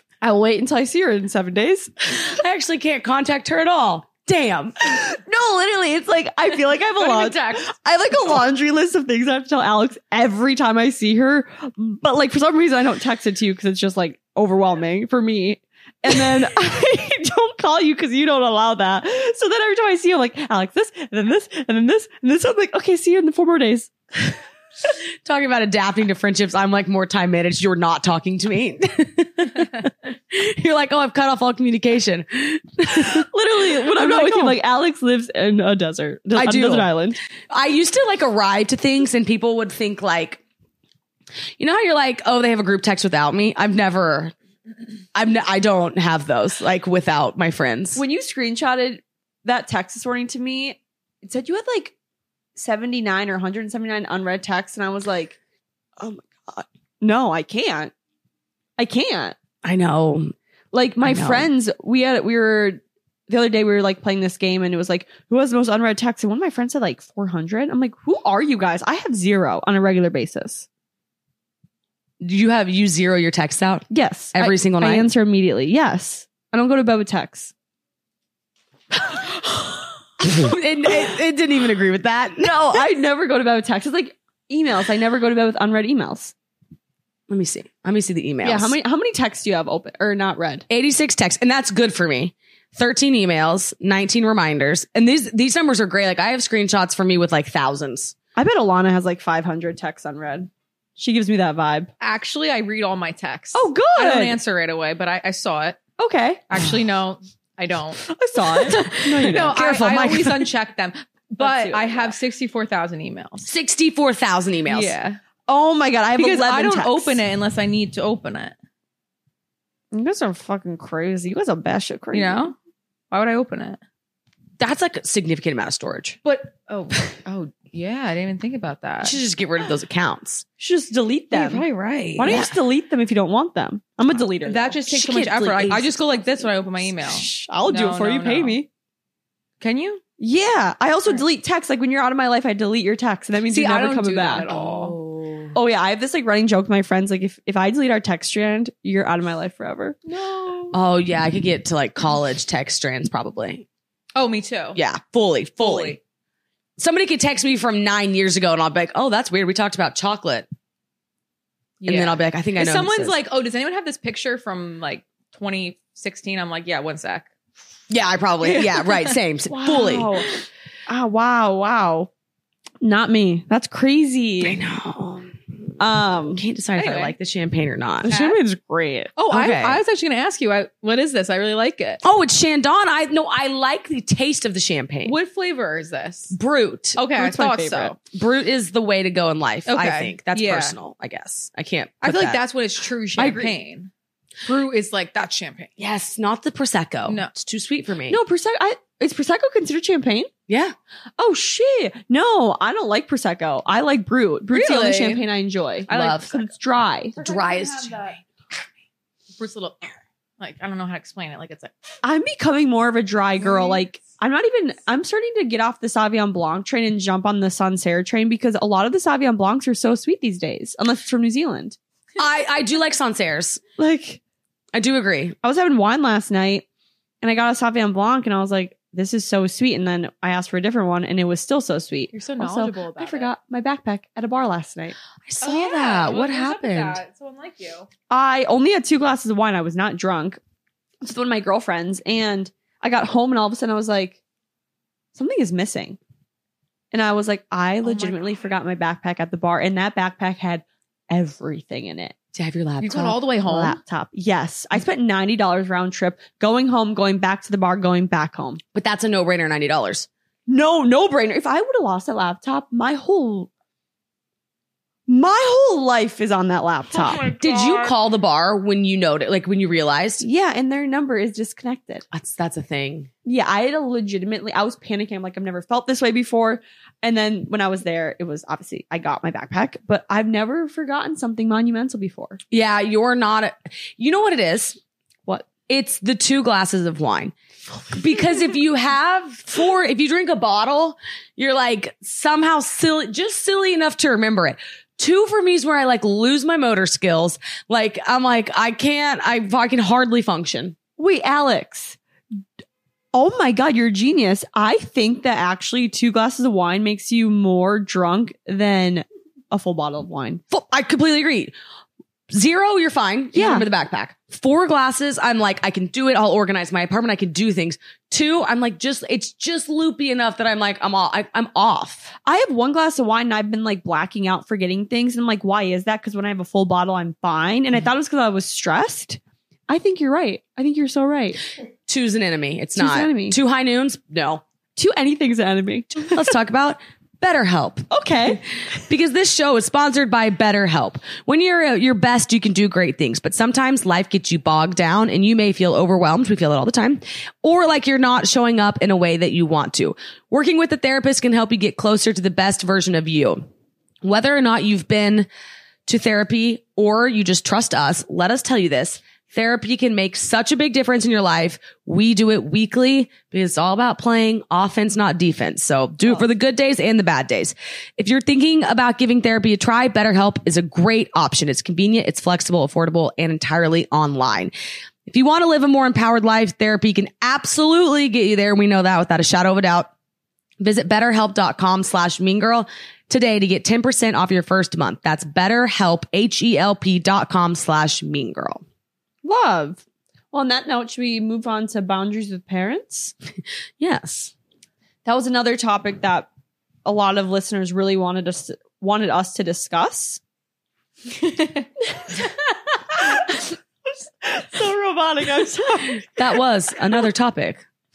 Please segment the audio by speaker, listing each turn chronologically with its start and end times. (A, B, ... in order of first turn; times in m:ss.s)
0:00.2-0:02.2 A
0:02.2-0:04.8 B
0:04.8-0:24.4 A
0:07.0-0:07.6 B
0:25.2-0:34.6 B
0:32.9-0:37.2 A
0:36.3-0:36.9 B
0:37.5-0:40.4 B
0:41.6-0:44.3 B
0:45.1-0:48.0 B
0:48.0-0:51.9 A
0:52.6-0:55.4 A
0:56.0-0:57.9 A
0:58.8-0:59.4 A
0:59.6-1:00.3 B
1:00.7-1:10.7 A
1:01.0-1:01.5 B
1:12.2-1:15.1 B
1:13.9-1:17.5 A
1:20.2-1:22.8 B
1:22.4-1:26.3 A
1:27.3-1:28.8 B
1:28.4-1:30.6 A
1:30.7-1:38.1 B
1:38.4-1:41.9 A
1:42.0-1:45.8 C
1:43.5-1:44.4 A
1:46.0-1:46.4 A
1:46.5-1:53.5 C
1:48.1-1:50.4 A
1:49.4-1:50.2 B
1:51.4-1:52.1 A
1:53.4-1:54.9 B
1:54.7-1:55.2 C
1:55.4-1:57.2 A
1:56.2-1:58.5 C
1:59.9-2:02.5 A
2:02.1-2:02.5 C
2:03.1-2:03.8 C
2:04.6-2:06.2 B
2:06.2-2:09.2 C
2:09.0-2:10.4 B
2:10.6-2:11.6 A
2:11.3-2:12.5 C
2:12.2-2:15.0 A
2:14.4-2:18.6 C
2:14.9-2:16.0 B
2:17.0-2:18.7 A
2:19.6-2:20.0 C
2:20.2-2:24.6 A
2:23.5-2:25.0 C
2:24.5-2:25.5 B
2:25.5-2:30.2 A
2:30.1-2:30.7 C
2:30.7-2:33.6 B
2:34.2-2:34.8 C
2:34.7-2:36.0 B
2:35.6-2:36.0 C
2:36.8-2:40.4 B
2:41.8-2:47.3 C
2:41.8-2:43.2 B
2:47.9-2:50.1 B
2:48.4-2:49.2 C
2:49.5-2:50.3 A
2:50.9-2:52.1 A
2:52.8-2:54.6 A
2:54.4-2:55.4 B
2:55.8-2:56.4 A
2:56.3-2:58.1 B
2:56.8-2:57.1 C
2:58.0-2:59.1 A
2:58.1-2:58.4 C
2:59.2-3:02.0 C
2:59.3-2:59.8 B
3:02.0-3:05.2 B
3:05.0-3:06.3 C
3:06.3-3:07.0 B
3:07.0-3:07.9 C
3:07.2-3:08.0 A
3:08.1-3:12.4 B
3:09.7-3:10.8 C
3:12.0-3:13.9 C
3:13.2-3:13.5 A
3:14.4-3:15.7 C
3:15.8-3:18.2 B
3:18.1-3:20.3 A
3:20.5-3:20.7 B
3:21.2-3:27.2 A
3:24.5-3:25.2 C
3:25.9-3:26.3 B
3:25.9-3:26.4 C
3:27.2-3:28.2 C
3:27.2-3:28.2 B
3:29.4-3:31.7 C
3:32.0-3:41.8 A
3:33.4-3:33.8 C
3:42.2-3:43.6 B
3:43.8-3:44.2 A
3:44.7-3:45.3 B
3:45.4-3:46.6 A
3:47.2-3:55.0 A
3:52.1-3:53.3 C
3:55.2-3:57.0 B
3:55.4-3:57.9 C
3:58.1-4:00.4 A
4:01.0-4:04.2 A
4:05.1-4:06.0 A
4:06.9-4:12.1 A
4:07.8-4:08.2 C
4:12.3-4:13.2 B
4:12.8-4:13.8 C
4:13.4-4:18.6 A
4:18.7-4:20.1 B
4:20.5-4:23.5 A
4:25.1-4:27.3 A
4:27.2-4:30.2 B
4:27.3-4:27.9 C
4:30.2-4:32.0 A
4:32.1-4:33.1 B
4:33.2-4:42.4 A
4:42.5-4:47.3 B
4:47.9-5:00.7 B
5:01.0-5:02.0 A
5:03.1-5:10.4 A
5:10.5-5:11.5 B
5:12.3-5:22.1 B
5:13.3-5:13.7 A
5:22.2-5:31.4 A
5:31.9-5:34.4 B
5:32.8-5:33.4 A
5:34.8-5:36.2 A
5:36.0-5:37.9 B
5:37.9-5:38.4 A
5:38.9-5:53.4 B
5:54.0-5:55.3 B
5:55.8-6:14.5 B
6:15.0-6:19.9 B
6:20.6-6:28.6 B
6:29.2-6:33.1 A
6:33.8-6:34.3 B
6:35.0-6:36.3 A
6:36.8-6:40.2 A
6:41.9-6:42.3 A
6:42.9-6:43.5 A
6:44.2-6:46.0 A
6:46.2-6:47.6 B